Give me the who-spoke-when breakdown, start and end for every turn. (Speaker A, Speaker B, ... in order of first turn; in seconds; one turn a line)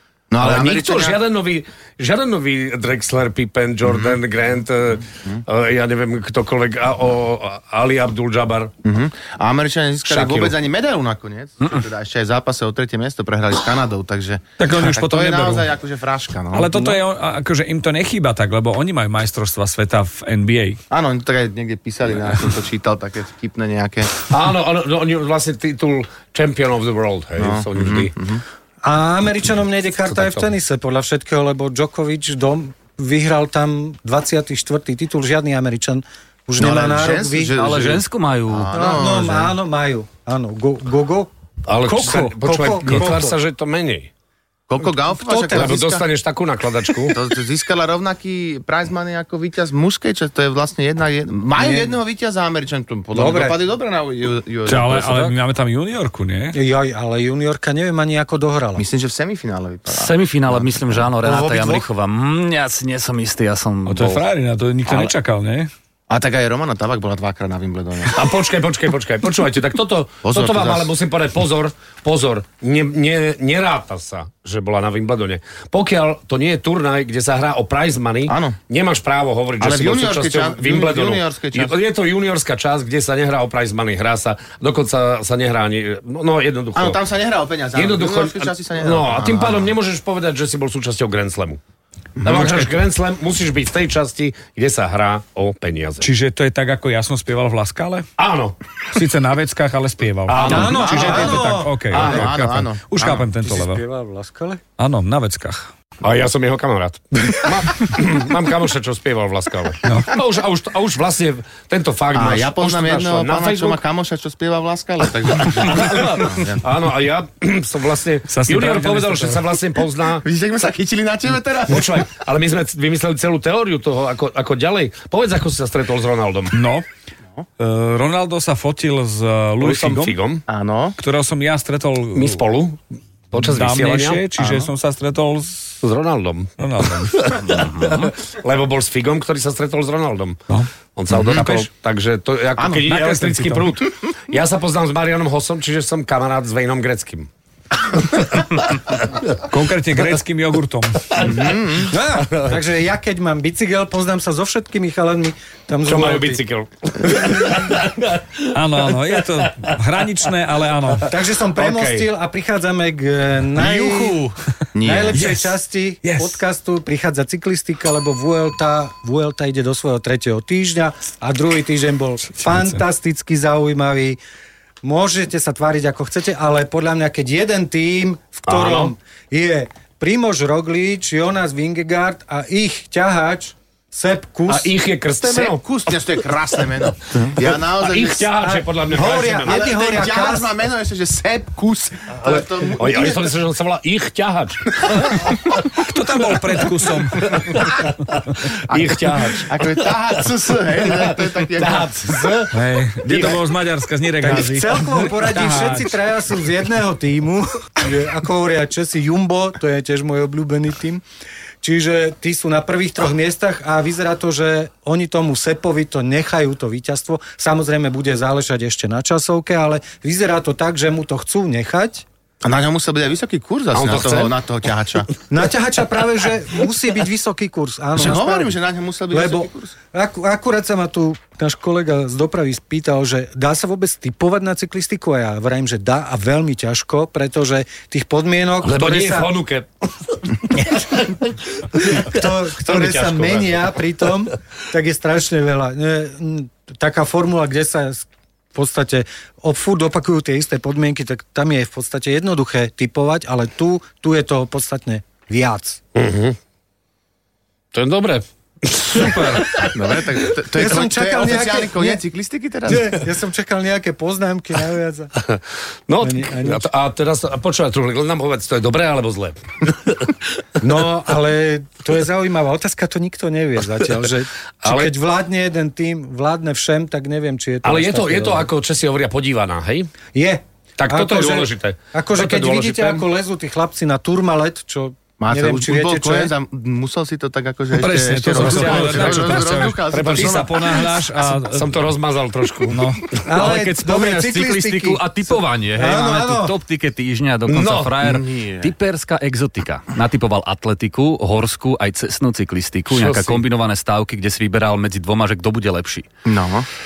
Speaker A: 0.3-1.2
Speaker B: 0.4-8.7
Speaker A: 3.9-4.2
Speaker A: 8.8-17.0
Speaker B: 10.1-10.5
Speaker C: 14.6-15.7
Speaker C: 16.5-20.8
Speaker A: 20.9-24.2
Speaker B: 24.3-28.1
Speaker A: 27.4-28.4
Speaker D: 28.8-37.5
Speaker B: 30.1-30.4
Speaker A: 36.6-39.5
Speaker E: 37.5-38.8
Speaker D: 38.7-41.3
Speaker B: 41.7-44.1
Speaker D: 41.9-43.4
Speaker A: 44.7-46.1
Speaker D: 45.1-45.8
Speaker B: 45.5-47.2
Speaker A: 47.1-55.2
Speaker D: 51.6-51.9
Speaker D: 53.1-53.6
Speaker C: 54.7-56.6
Speaker D: 56.5-58.9
Speaker A: 58.8-61.1
Speaker E: 59.9-64.2
Speaker D: 61.2-61.9
Speaker C: 63.9-65.7
Speaker A: 66.1-68.2
Speaker B: 68.1-87.0
Speaker A: 70.2-70.9
Speaker A: 78.3-78.6
Speaker A: 79.6-81.8
Speaker A: 86.7-89.7
Speaker B: 87.8-91.6
Speaker A: 92.2-92.7
Speaker B: 92.2-96.1
Speaker C: 96.0-98.1
Speaker B: 98.2-98.6
Speaker C: 98.9-103.8
Speaker B: 100.3-101.4
Speaker D: 100.4-101.8
Speaker A: 100.7-103.3
Speaker B: 101.9-102.3
Speaker D: 103.4-104.6
Speaker C: 104.8-105.7
Speaker B: 106.0-113.8
Speaker C: 109.8-110.2
Speaker A: 112.1-116.6
Speaker B: 115.6-120.2
Speaker C: 118.3-119.5
Speaker A: 120.2-122.1
Speaker B: 121.7-126.5
Speaker C: 126.5-126.9
Speaker C: 127.6-130.2
Speaker B: 129.6-130.4
Speaker A: 130.5-131.0
Speaker C: 131.0-132.4
Speaker B: 132.2-132.8
Speaker B: 133.3-134.2
Speaker C: 133.3-135.8
Speaker A: 134.4-134.7
Speaker B: 135.8-140.4
Speaker C: 136.6-137.4
Speaker E: 137.4-138.1
Speaker B: 140.9-147.3
Speaker A: 141.1-141.4
Speaker C: 141.3-141.7
Speaker A: 142.6-142.8
Speaker C: 142.9-143.8
Speaker B: 147.9-148.5
Speaker C: 149.4-151.3
Speaker B: 151.1-151.5
Speaker A: 151.2-151.9
Speaker D: 151.9-156.4
Speaker B: 155.8-159.8
Speaker C: 158.5-161.1
Speaker D: 161.0-164.3
Speaker B: 161.6-162.1
Speaker E: 163.6-164.3
Speaker A: 164.7-165.2
Speaker D: 164.8-174.2
Speaker C: 165.1-166.4
Speaker C: 172.4-172.8
Speaker D: 174.8-184.7
Speaker B: 178.5-178.9
Speaker B: 184.5-185.6
Speaker A: 185.2-188.3
Speaker B: 187.2-189.7
Speaker D: 188.4-190.5
Speaker A: 189.4-193.3
Speaker B: 192.2-194.9
Speaker A: 194.8-195.2
Speaker C: 195.7-197.7
Speaker B: 197.3-203.4
Speaker A: 198.7-202.4
Speaker C: 202.5-206.0
Speaker D: 204.2-211.0
Speaker D: 211.6-222.1
Speaker A: 222.4-225.1
Speaker B: 223.7-224.3
Speaker D: 225.3-228.6
Speaker A: 228.0-229.8
Speaker D: 229.1-239.3
Speaker B: 238.6-243.8
Speaker D: 241.8-255.8
Speaker B: 255.9-256.4
Speaker B: 257.7-259.7
Speaker C: 259.0-259.4
Speaker A: 259.6-263.0
Speaker D: 260.5-262.0
Speaker D: 262.7-265.1
Speaker B: 265.3-270.1
Speaker D: 266.0-266.6
Speaker D: 270.6-278.5
Speaker B: 274.6-274.9
Speaker B: 277.6-279.9
Speaker D: 280.1-286.3
Speaker B: 280.8-283.1
Speaker A: 285.2-291.0
Speaker C: 287.7-291.8
Speaker B: 288.2-290.5
Speaker B: 291.3-293.2
Speaker C: 292.7-293.2
Speaker D: 293.2-296.6
Speaker E: 293.3-306.1
Speaker B: 297.5-298.2
Speaker A: 298.0-298.7
Speaker B: 302.9-303.4
Speaker A: 306.2-306.7